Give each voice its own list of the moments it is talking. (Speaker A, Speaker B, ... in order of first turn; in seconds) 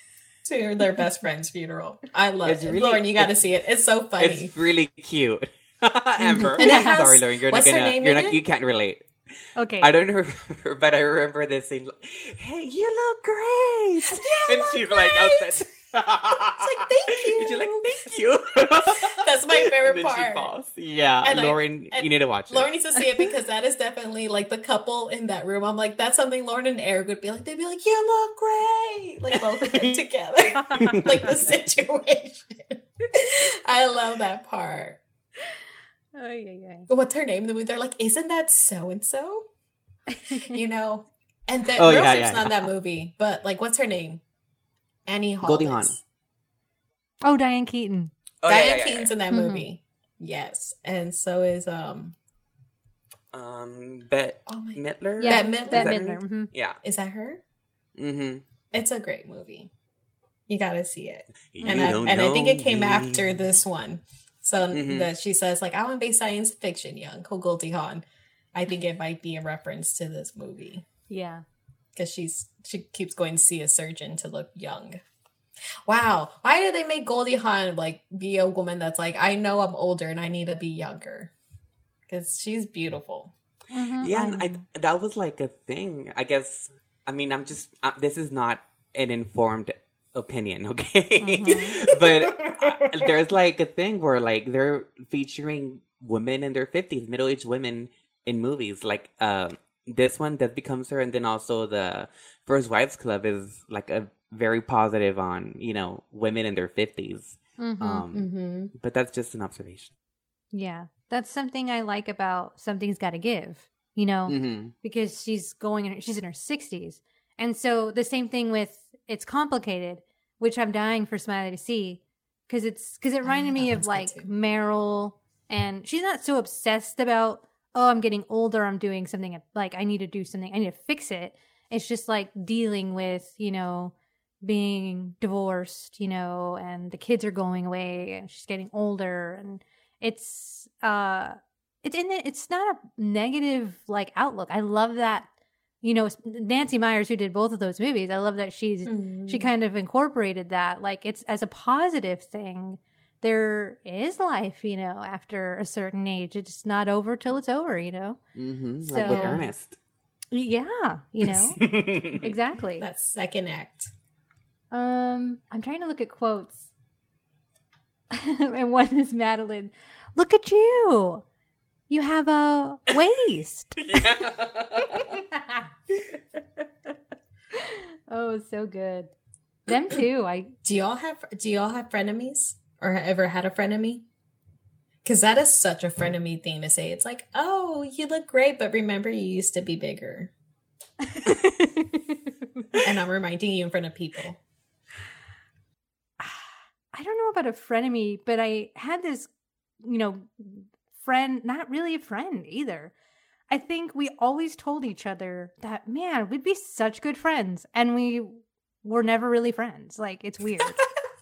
Speaker A: 0.5-4.5, 6.2-8.4, 14.1-15.6, 16.6-18.2, 19.0-20.5, 21.2-35.0, 36.9-39.5, 40.3-44.2, 45.1-46.0, 48.5-52.2, 54.5-56.0, 56.8-57.4, 58.7-59.7, 60.5-68.0, 68.5-70.8, 72.0-75.0, 75.9-81.3, 82.1-83.3, 91.7-93.2, 108.1-108.7, 123.2-124.3, 148.9-149.5, 159.0-159.5, 162.8-163.9, 180.6-184.1, 185.0-190.3, 192.8-194.4
Speaker B: 2.5-3.4, 4.2-9.0, 9.8-22.7, 29.3-30.0, 30.6-31.4, 41.8-42.7, 45.4-46.0, 48.4-49.1, 53.3-56.8, 58.0-58.4, 61.5-63.4, 64.7-65.1, 84.0-109.9, 114.3-114.7, 158.3-159.8, 161.6-162.3, 173.8-175.2
Speaker C: 6.4-7.0, 9.6-9.9, 30.6-31.0, 36.2-36.9, 40.1-40.6, 47.2-48.1, 49.3-49.7, 55.2-56.5, 61.6-62.0, 71.1-71.4, 83.7-84.6, 91.2-91.8, 107.6-108.0, 110.5-145.3, 145.8-158.2, 158.9-159.5, 160.3-161.6, 162.2-162.9, 164.7-166.7, 168.1-171.2, 171.9-174.1, 174.8-176.2, 177.5-179.1, 179.7-180.5, 191.0-192.2, 196.2-199.3, 199.8-202.9, 203.5-210.8